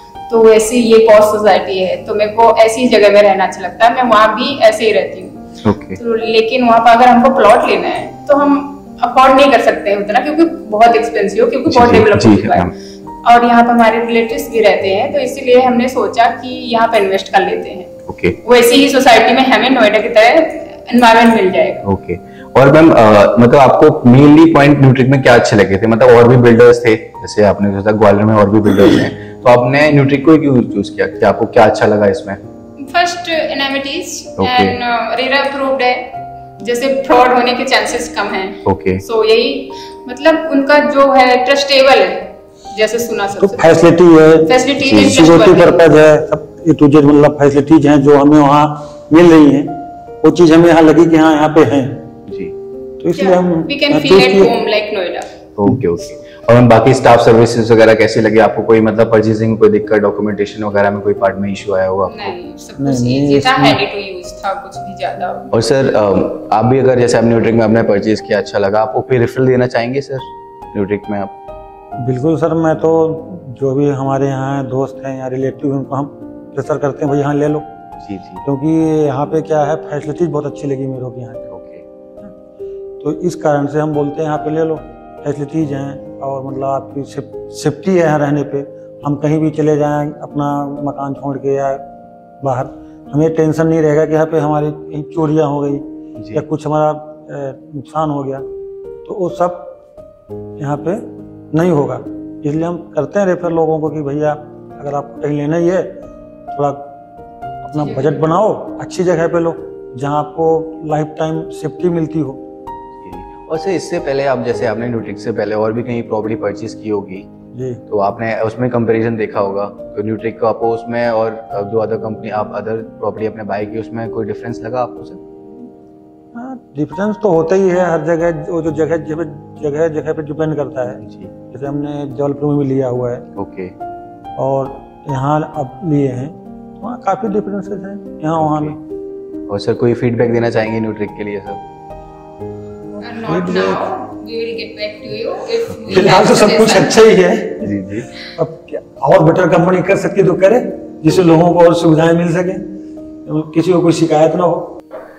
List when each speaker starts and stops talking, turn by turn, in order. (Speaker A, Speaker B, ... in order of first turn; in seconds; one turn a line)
Speaker A: 0.3-21.9
Speaker B: 5.6-6.0
Speaker B: 11.7-12.7
Speaker B: 18.1-18.4
Speaker B: 21.8-32.4
Speaker A: 32.8-43.9
Speaker B: 34.4-34.8
Speaker B: 38.7-39.0
Speaker C: 43.4-52.1
Speaker A: 44.5-45.8
Speaker B: 44.8-45.2
Speaker B: 52.3-52.5
Speaker C: 53.0-54.6
Speaker A: 53.1-55.3
Speaker B: 55.6-62.4
Speaker A: 62.1-65.5
Speaker C: 62.8-63.8
Speaker B: 65.5-71.3
Speaker C: 72.0-77.7
Speaker B: 78.0-78.4
Speaker C: 78.5-81.5
Speaker B: 81.5-81.8
Speaker C: 83.0-91.8
Speaker C: 92.4-98.5
Speaker B: 96.2-96.5
Speaker C: 99.0-99.8
Speaker C: 100.6-107.0
Speaker C: 107.6-112.4
Speaker A: 107.8-108.2
Speaker B: 113.0-117.3
Speaker C: 117.5-117.8
Speaker B: 117.9-125.2
Speaker C: 126.3-133.3
Speaker B: 131.0-131.3
Speaker B: 133.4-133.7
Speaker C: 134.4-138.8
Speaker B: 138.4-138.8
Speaker B: 139.5-141.6
Speaker A: 143.0-147.0
Speaker C: 143.3-143.9
Speaker C: 145.9-147.7
Speaker B: 147.6-148.1
Speaker C: 148.3-152.6
Speaker C: 153.2-154.8